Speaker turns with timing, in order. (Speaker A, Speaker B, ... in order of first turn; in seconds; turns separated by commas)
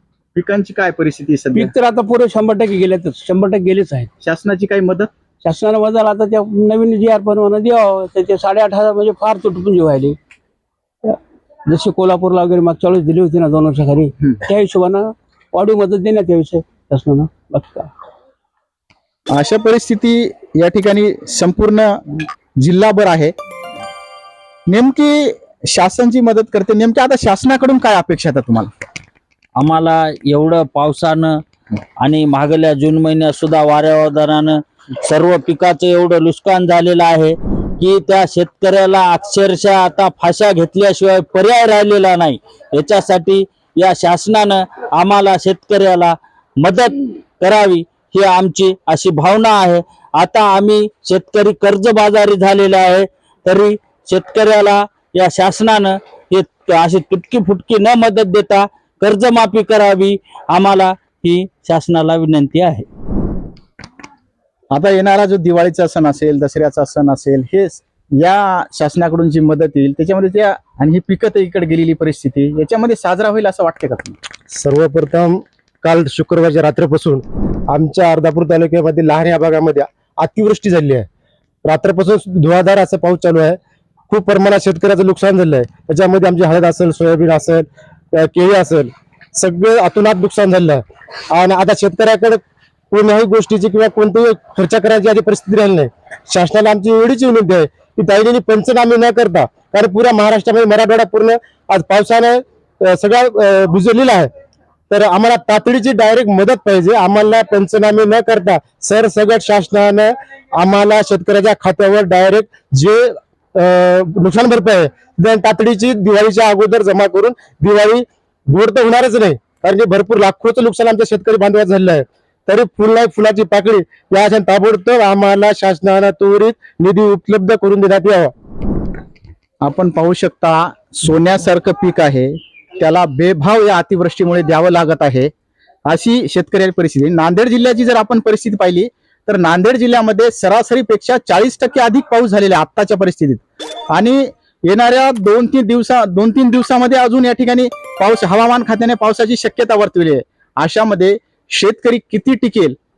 Speaker A: 0.3-1.7, Speaker B: 1.6-4.1, Speaker A: 4.2-5.1, Speaker B: 5.4-10.2, Speaker B: 11.7-17.9, Speaker A: 19.4-23.3, Speaker A: 24.7-28.7, Speaker C: 29.6-31.4, Speaker C: 32.0-62.9, Speaker A: 64.7-74.2, Speaker D: 74.5-81.1, Speaker D: 81.7-83.6, Speaker D: 84.1-92.4, Speaker D: 92.9-104.3, Speaker D: 104.9-128.3, Speaker A: 129.6-135.3, Speaker A: 135.9-143.4, Speaker A: 143.9-152.8